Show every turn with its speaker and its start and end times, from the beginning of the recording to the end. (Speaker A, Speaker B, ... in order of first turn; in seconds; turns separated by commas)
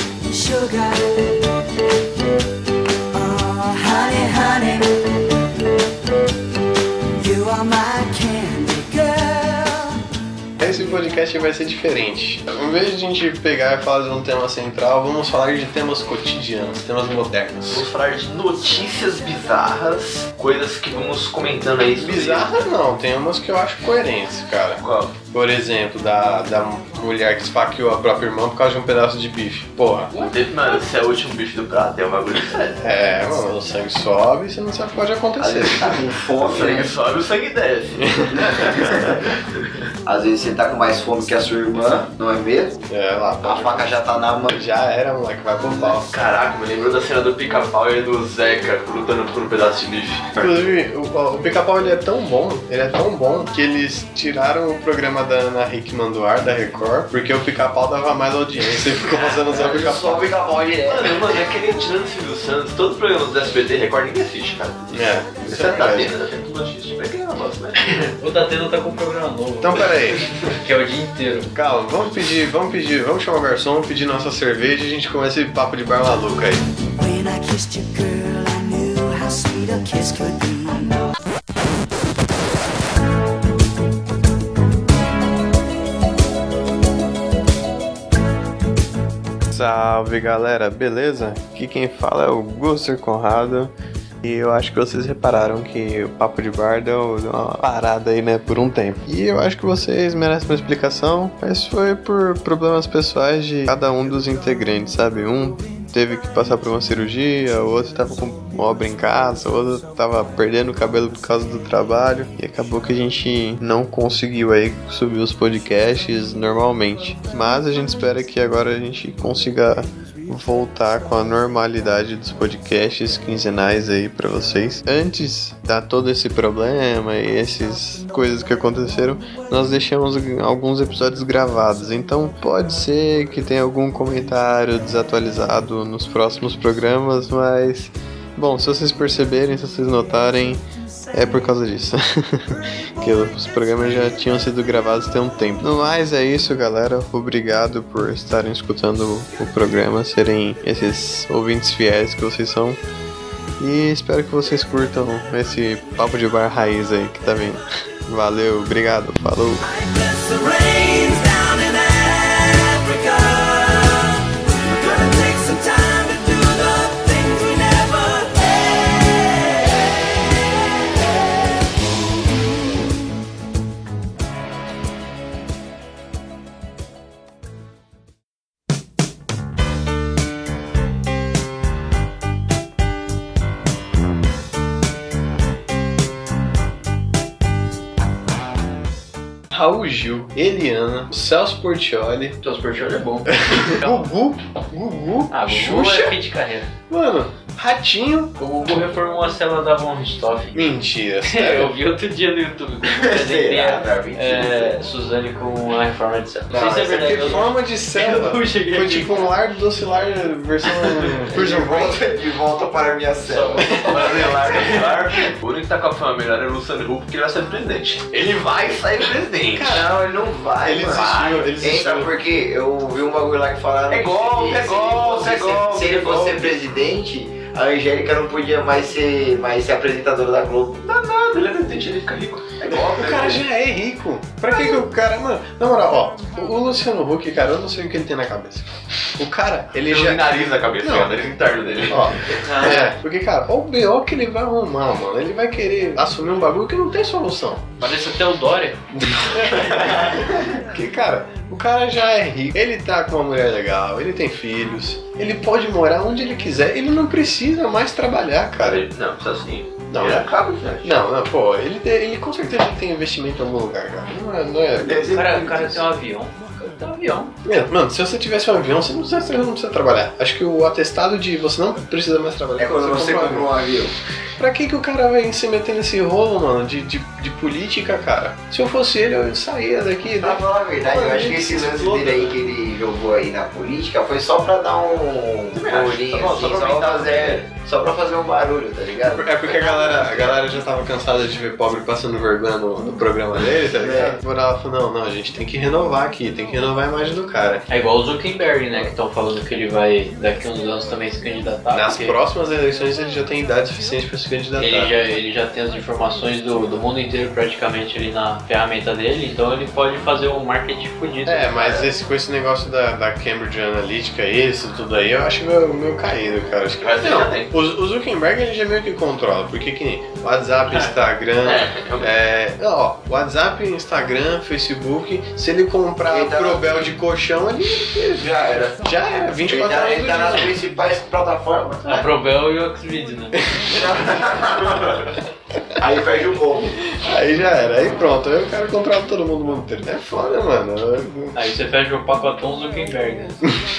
Speaker A: 0.3-1.4, Speaker A: 3.1-5.0, Speaker A: 7.2-10.0, Speaker B: 10.6-17.9, Speaker C: 17.7-22.5, Speaker B: 22.0-30.1, Speaker C: 24.8-25.2, Speaker C: 30.2-32.8, Speaker B: 32.8-36.1, Speaker D: 35.4-37.0, Speaker C: 36.4-38.8, Speaker B: 38.0-38.4, Speaker D: 38.3-39.4, Speaker D: 40.1-42.8, Speaker B: 42.9-43.9, Speaker D: 43.4-44.6, Speaker B: 44.5-46.3, Speaker C: 45.9-50.5, Speaker B: 50.4-60.3, Speaker D: 59.1-61.3, Speaker C: 60.9-68.0, Speaker B: 64.9-66.1, Speaker E: 67.8-70.0, Speaker B: 69.6-70.3, Speaker E: 70.5-71.5, Speaker B: 71.5-76.7, Speaker A: 77.0-81.1, Speaker B: 89.5-152.8, Speaker B: 153.6-159.7, Speaker A: 159.6-170.0, Speaker B: 189.5-192.4, Speaker E: 192.4-194.1, Speaker B: 193.3-196.2, Speaker E: 195.3-196.7, Speaker B: 196.9-198.3, Speaker E: 198.4-209.3, Speaker B: 200.5-201.8, Speaker D: 202.8-204.8, Speaker B: 206.5-212.0, Speaker D: 206.5-206.9, Speaker E: 210.7-211.2, Speaker D: 211.3-215.0, Speaker E: 213.3-214.9, Speaker C: 213.9-219.8, Speaker B: 219.6-219.9, Speaker D: 219.6-230.8, Speaker B: 220.6-222.1, Speaker C: 221.0-221.9, Speaker C: 223.9-226.6, Speaker C: 230.8-233.5, Speaker B: 232.7-240.3, Speaker C: 239.8-242.8, Speaker B: 240.8-241.3, Speaker B: 241.9-247.7, Speaker E: 242.4-242.9, Speaker E: 247.8-248.8, Speaker B: 248.9-258.8, Speaker C: 258.6-261.0, Speaker B: 259.9-260.3, Speaker B: 260.8-265.2, Speaker D: 264.8-265.9, Speaker E: 265.1-267.4, Speaker B: 267.4-273.5, Speaker D: 272.6-273.9, Speaker B: 274.4-282.1, Speaker D: 280.2-290.4, Speaker C: 281.9-282.3, Speaker C: 285.5-287.4, Speaker B: 289.1-297.7, Speaker D: 293.7-294.2, Speaker E: 297.7-302.2, Speaker B: 301.7-304.9, Speaker E: 304.6-311.8, Speaker B: 311.3-328.3, Speaker C: 316.8-317.5, Speaker C: 321.4-322.1, Speaker D: 326.1-326.9, Speaker D: 328.1-328.8, Speaker B: 328.9-330.6, Speaker D: 329.5-332.1, Speaker E: 331.9-333.4, Speaker B: 333.4-333.9, Speaker D: 333.7-335.1, Speaker D: 335.8-336.8, Speaker B: 336.9-341.4, Speaker E: 341.4-343.5